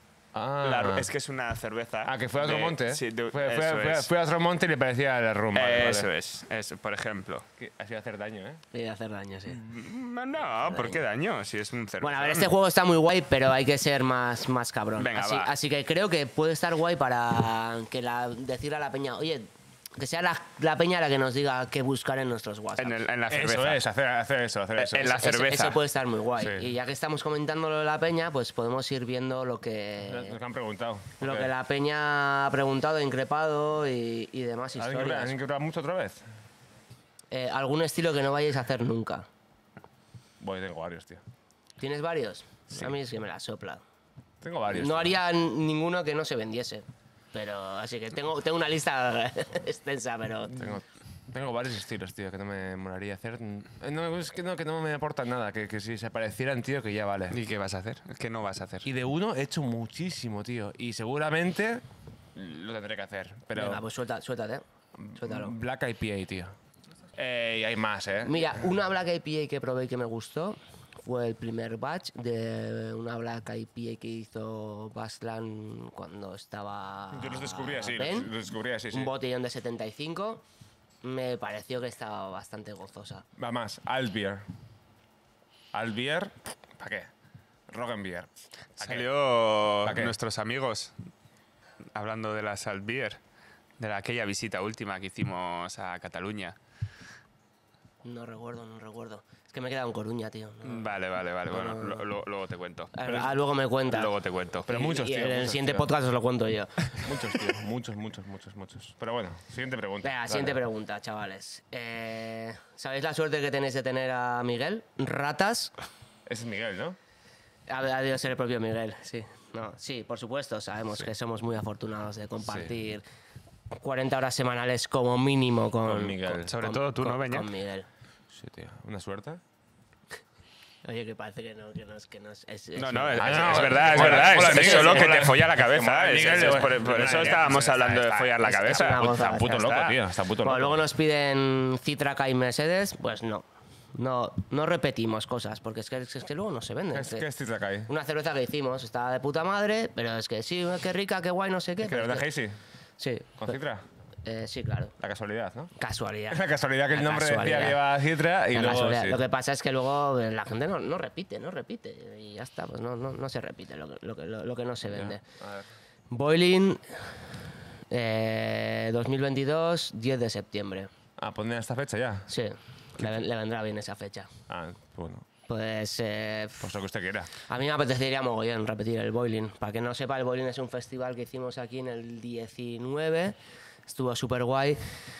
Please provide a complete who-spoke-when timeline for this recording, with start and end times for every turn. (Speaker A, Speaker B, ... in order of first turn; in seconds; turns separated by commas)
Speaker A: 0.3-1.1, Speaker B: 0.6-4.1, Speaker A: 2.0-6.1, Speaker B: 5.5-7.5, Speaker A: 7.6-8.6, Speaker C: 8.7-9.6, Speaker B: 9.5-12.5, Speaker C: 10.7-11.0, Speaker C: 12.0-23.0, Speaker B: 15.0-15.5, Speaker B: 22.8-23.8, Speaker A: 23.3-25.2, Speaker B: 24.8-25.8, Speaker C: 25.0-30.4, Speaker A: 26.4-26.7, Speaker A: 30.1-31.5, Speaker C: 31.2-35.4, Speaker A: 34.8-36.2, Speaker C: 37.3-39.3, Speaker A: 40.4-41.2, Speaker C: 41.8-43.8, Speaker A: 44.4-45.1, Speaker C: 44.7-50.8, Speaker A: 50.5-57.4, Speaker B: 57.3-58.9, Speaker A: 58.8-63.8, Speaker C: 63.5-64.6, Speaker A: 65.0-66.5, Speaker C: 65.2-65.5, Speaker A: 67.2-68.6, Speaker C: 68.2-78.3, Speaker A: 77.1-79.1, Speaker C: 78.9-80.4, Speaker C: 81.0-83.2, Speaker A: 83.4-84.5, Speaker A: 85.7-87.1, Speaker A: 87.7-89.1, Speaker B: 88.8-91.0, Speaker A: 89.8-90.2, Speaker B: 92.0-93.2, Speaker B: 93.8-96.6, Speaker C: 98.0-101.0, Speaker B: 100.7-102.9, Speaker C: 101.5-102.0, Speaker C: 102.9-104.1, Speaker B: 103.9-104.7, Speaker A: 104.7-105.9, Speaker C: 104.7-106.9, Speaker A: 107.0-110.6, Speaker C: 110.0-115.7, Speaker A: 116.3-117.0, Speaker C: 117.7-123.0, Speaker A: 122.5-122.7, Speaker C: 123.7-127.9, Speaker A: 125.8-126.5, Speaker B: 126.5-127.5, Speaker A: 128.3-129.4, Speaker C: 130.8-135.3, Speaker B: 132.8-140.0, Speaker A: 133.2-140.8, Speaker C: 136.3-137.4, Speaker C: 138.4-139.7, Speaker C: 140.4-147.3, Speaker A: 146.9-147.9, Speaker C: 147.9-152.3, Speaker A: 151.8-152.6, Speaker C: 153.0-153.6, Speaker A: 153.4-153.8, Speaker C: 154.2-154.9, Speaker A: 155.0-155.7, Speaker C: 155.8-157.8, Speaker A: 156.3-159.2, Speaker C: 158.5-165.2, Speaker A: 164.9-165.7, Speaker C: 166.1-166.8, Speaker C: 167.9-170.9, Speaker A: 171.2-172.3, Speaker C: 172.3-174.3, Speaker A: 174.5-175.3, Speaker C: 175.5-176.7, Speaker A: 176.6-177.3, Speaker C: 177.5-184.8